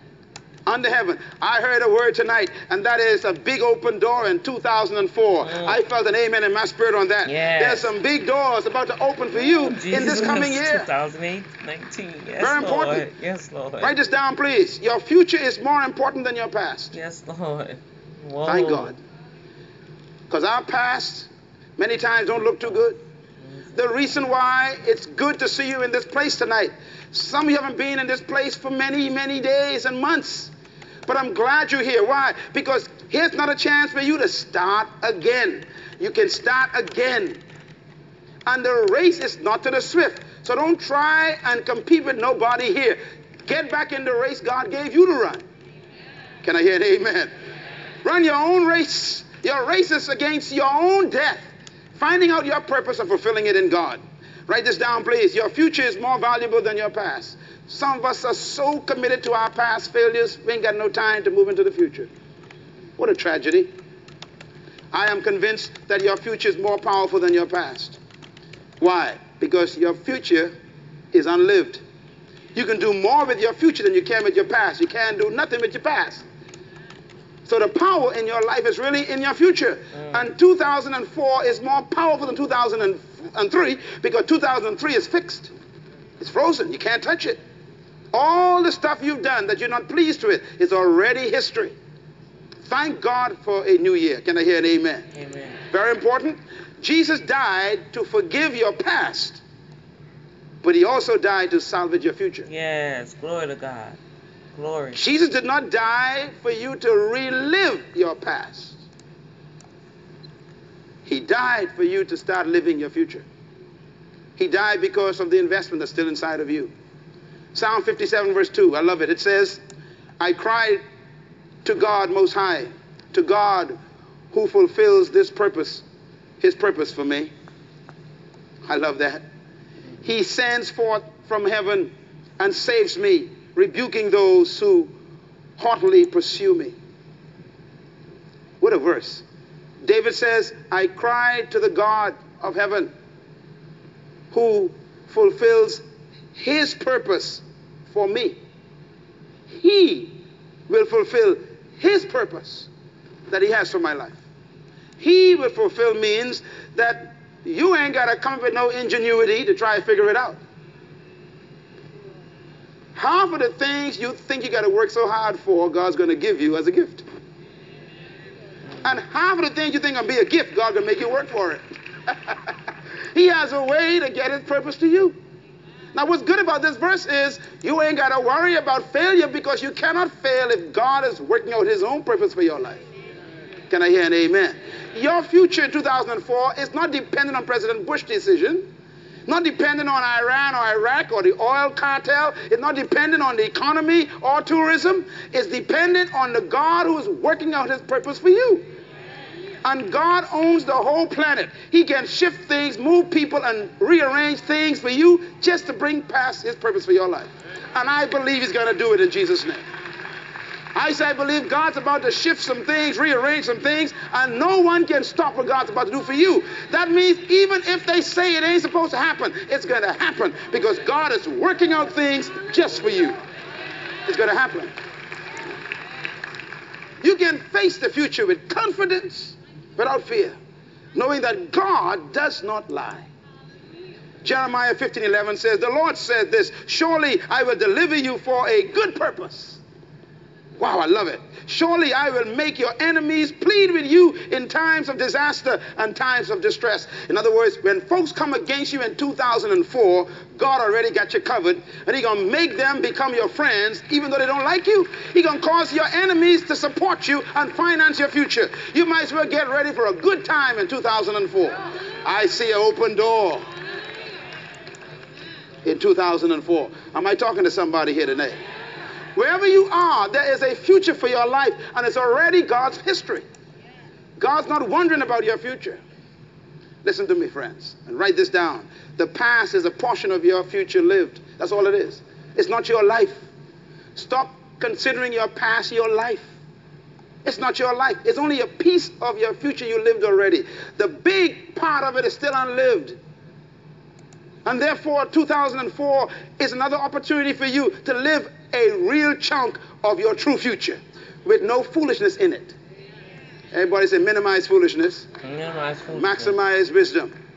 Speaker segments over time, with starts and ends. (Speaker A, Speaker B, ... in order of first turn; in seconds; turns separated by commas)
Speaker A: 0.7-10.9, Speaker B: 5.4-5.8, Speaker B: 7.2-7.9, Speaker B: 9.3-13.9, Speaker A: 12.4-13.1, Speaker A: 13.8-16.9, Speaker B: 16.9-18.9, Speaker A: 18.5-19.0, Speaker A: 20.3-23.0, Speaker A: 23.7-30.5, Speaker A: 31.1-37.4, Speaker A: 38.5-45.4, Speaker A: 46.4-47.3, Speaker A: 48.0-62.1, Speaker A: 63.0-63.7, Speaker A: 64.9-68.0, Speaker A: 68.8-70.5, Speaker A: 71.1-71.8, Speaker A: 72.5-76.2, Speaker A: 77.5-85.5, Speaker B: 79.9-80.3, Speaker A: 86.2-87.4, Speaker A: 88.1-91.7, Speaker A: 92.6-95.1, Speaker B: 95.1-95.6, Speaker A: 95.7-99.4, Speaker A: 100.6-102.5, Speaker B: 102.5-104.0, Speaker B: 104.5-105.0, Speaker A: 104.9-108.8, Speaker A: 111.1-113.2, Speaker A: 114.4-116.7, Speaker A: 117.5-119.6, Speaker A: 120.2-120.8, Speaker A: 121.6-123.8, Speaker A: 124.3-125.8, Speaker A: 126.4-127.3, Speaker A: 128.6-129.2, Speaker A: 130.0-134.9, Speaker A: 135.6-136.8, Speaker A: 138.6-139.2, Speaker A: 139.8-142.9, Speaker A: 144.3-145.8, Speaker A: 146.3-148.4, Speaker A: 149.5-150.2, Speaker A: 150.7-152.7, Speaker A: 153.3-154.2, Speaker A: 155.0-160.4, Speaker A: 162.9-167.0, Speaker A: 168.8-172.5, Speaker A: 173.1-175.2, Speaker A: 175.9-182.8, Speaker A: 183.7-188.7, Speaker A: 189.3-198.6, Speaker A: 199.6-209.6, Speaker A: 210.8-223.2, Speaker A: 224.1-224.7, Speaker A: 227.0-230.4, Speaker A: 230.9-233.1, Speaker A: 234.2-239.6, Speaker A: 240.6-263.5, Speaker A: 265.6-268.4, Speaker A: 269.1-273.2, Speaker A: 274.2-275.8, Speaker A: 276.8-283.3, Speaker A: 283.9-286.3, Speaker A: 287.2-293.0, Speaker A: 294.4-302.6, Speaker A: 303.5-305.1, Speaker B: 305.2-306.4, Speaker A: 305.9-307.1